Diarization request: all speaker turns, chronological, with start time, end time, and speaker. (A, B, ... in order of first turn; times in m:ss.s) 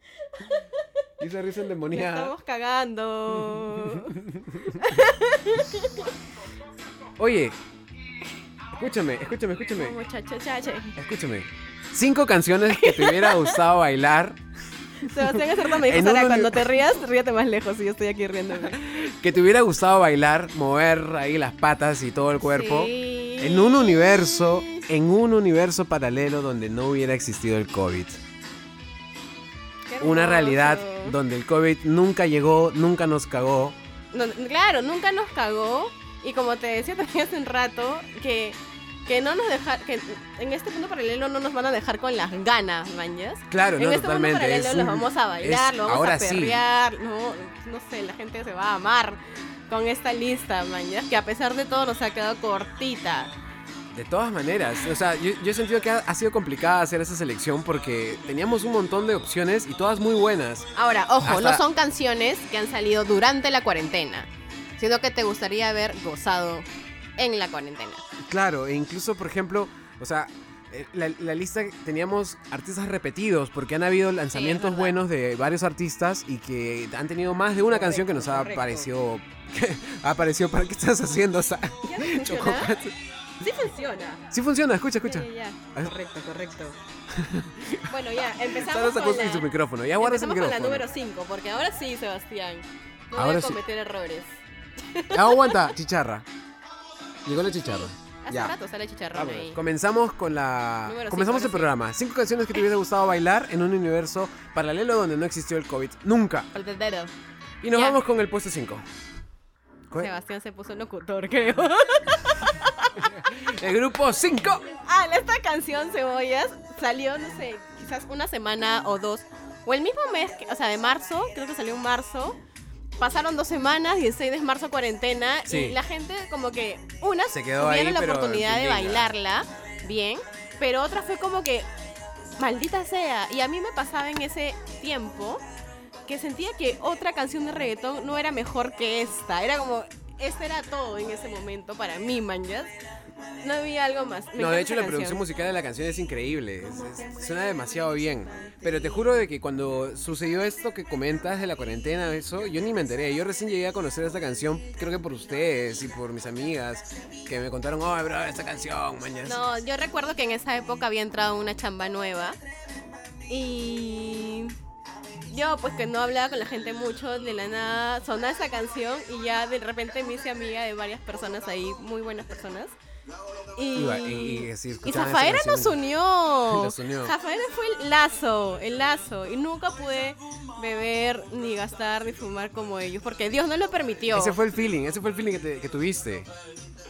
0:00.4-0:00.8 A
0:01.2-0:02.3 B
0:01.9-0:06.1 A
0:03.3-0:04.8 B
0:07.2-0:07.6 B
0:08.7-0:10.0 B
0:09.7-0:11.0 A
0:11.0-0:14.4 B
0:12.7-0:13.6 A
0:15.0-0:18.8 A
0:15.2-0:16.7 B
0:18.7-0:28.2 B
0:22.4-0:24.8 A
0:29.8-0:31.2 A
0:30.0-0:33.8 B
0:34.1-0:53.3 A
0:43.5-0:46.6 B
0:53.9-1:00.7 B
1:00.8-1:08.0 A
1:01.2-1:01.6 B
1:08.2-1:22.9 B
1:14.3-1:15.0 A
1:17.7-1:18.9 A
1:21.8-1:22.7 A
1:23.4-1:24.2 A
1:24.3-1:26.0 B
1:25.0-1:26.8 A
1:27.1-1:30.9 B
1:27.8-1:34.3 A
1:33.1-1:33.6 B
1:34.9-1:35.7 A
1:35.1-1:36.2 B
1:37.2-1:38.5 B
1:38.2-1:39.6 A
1:39.1-1:46.5 B
1:40.8-1:41.7 A
1:46.5-1:47.1 A
1:47.6-1:48.8 B
1:47.7-1:48.0 A
1:49.9-1:53.3 A
1:53.0-1:54.6 B
1:54.7-2:02.4 A
2:03.0-2:11.7 A
2:05.5-2:05.8 B
2:07.3-2:09.1 B
2:12.4-2:15.4 A
2:16.0-2:22.8 A
2:23.4-2:25.2 A
2:24.4-2:39.6 B
2:27.8-2:29.1 A
2:39.2-2:42.4 A
2:43.3-2:44.5 A
2:45.3-2:52.8 A
2:53.5-3:04.4 A
2:53.7-2:55.8 B
2:56.5-2:57.1 B
3:04.1-3:06.3 B